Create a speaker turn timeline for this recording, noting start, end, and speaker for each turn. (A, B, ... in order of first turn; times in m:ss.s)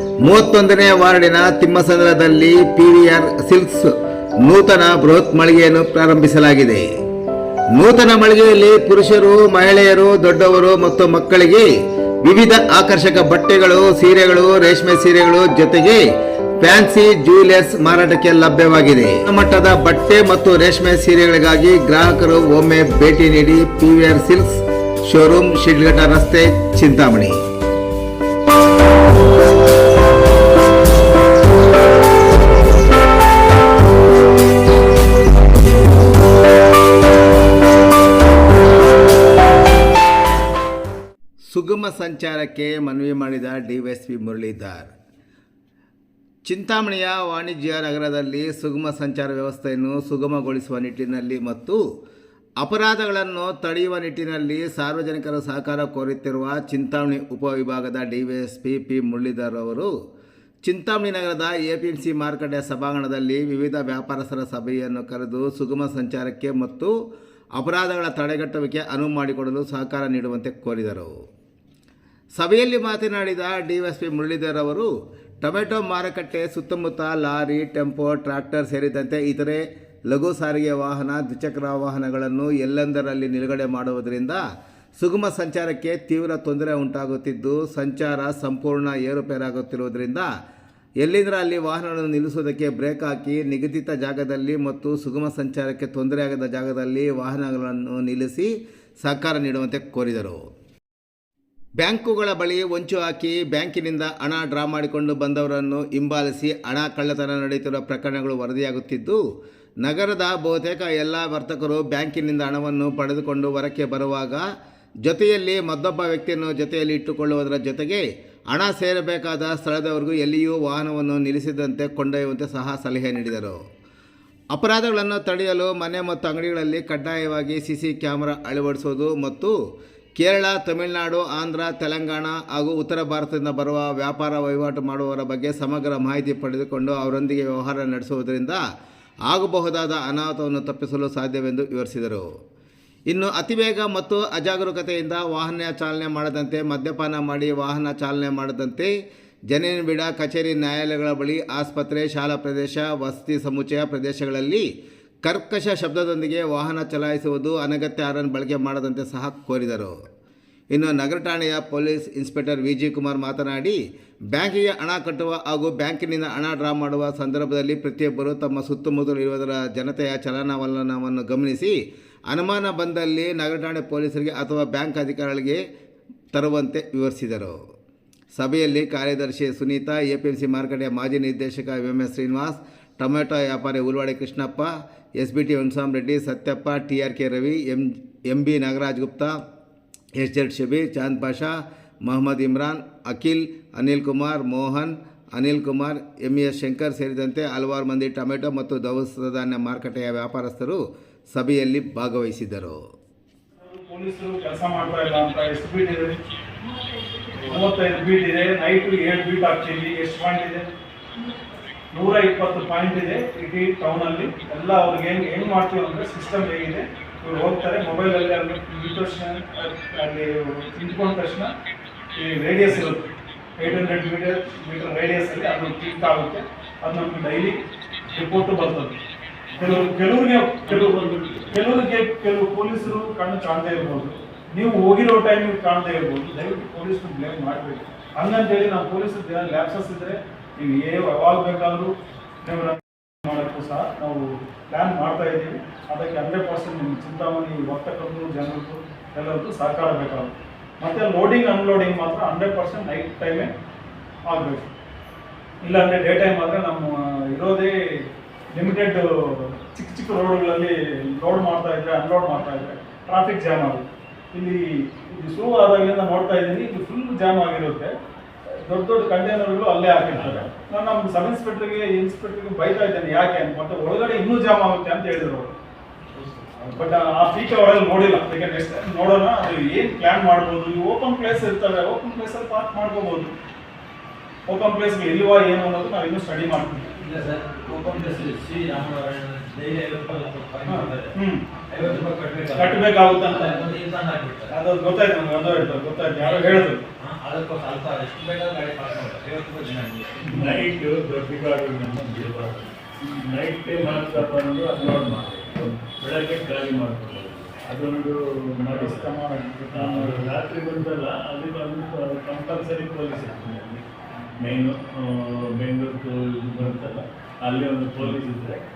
0:00.2-0:03.9 A
0:04.4-0:06.9 A
0:07.7-0:11.7 A
0:12.2-0:16.0 A
0:16.6-0:27.4 A
0:41.4-0:44.9 A
0:46.4-0:51.8 A
0:52.6-0:59.9 A
1:00.6-1:06.9 A
1:07.5-1:11.1 A
1:12.4-1:14.9 A
1:15.4-1:24.4 A
1:25.0-1:30.3 A
1:31.0-1:40.4 A
1:41.8-1:49.2 A
1:49.8-1:54.4 A
1:55.0-2:03.6 A
2:04.5-2:09.5 A
2:10.2-2:18.6 A
2:19.3-2:22.3 A
2:23.1-2:28.9 A
2:29.5-2:34.7 A
2:35.2-2:39.9 A
2:40.7-2:43.8 A
2:44.3-2:51.8 A
2:52.3-2:55.6 A
2:56.3-2:57.6 A
2:58.3-3:09.3 A
3:10.2-3:20.8 A
3:21.3-3:22.8 A
3:23.6-3:26.2 B
3:27.4-3:30.6 B
3:31.9-3:41.5 B
3:42.2-3:47.6 B
3:48.1-3:49.0 B
3:49.6-4:01.9 B
3:50.7-3:51.5 C
4:02.4-4:13.5 B
4:14.3-4:14.7 B
4:15.6-4:17.8 B
4:18.5-4:27.9 B
4:28.6-4:35.5 B
4:30.1-4:30.5 C
4:36.1-4:36.8 D
4:36.7-4:43.3 B
4:44.5-4:47.0 B
4:47.0-4:51.1 D
4:50.6-4:51.4 B
4:51.7-4:54.5 D
4:52.5-4:53.7 B
4:54.5-4:56.8 B
4:56.2-5:00.6 D
5:00.2-5:00.6 B
5:00.3-5:02.6 C
5:03.2-5:09.1 C
5:08.6-5:10.2 B
5:09.7-5:13.8 C
5:14.4-5:18.6 C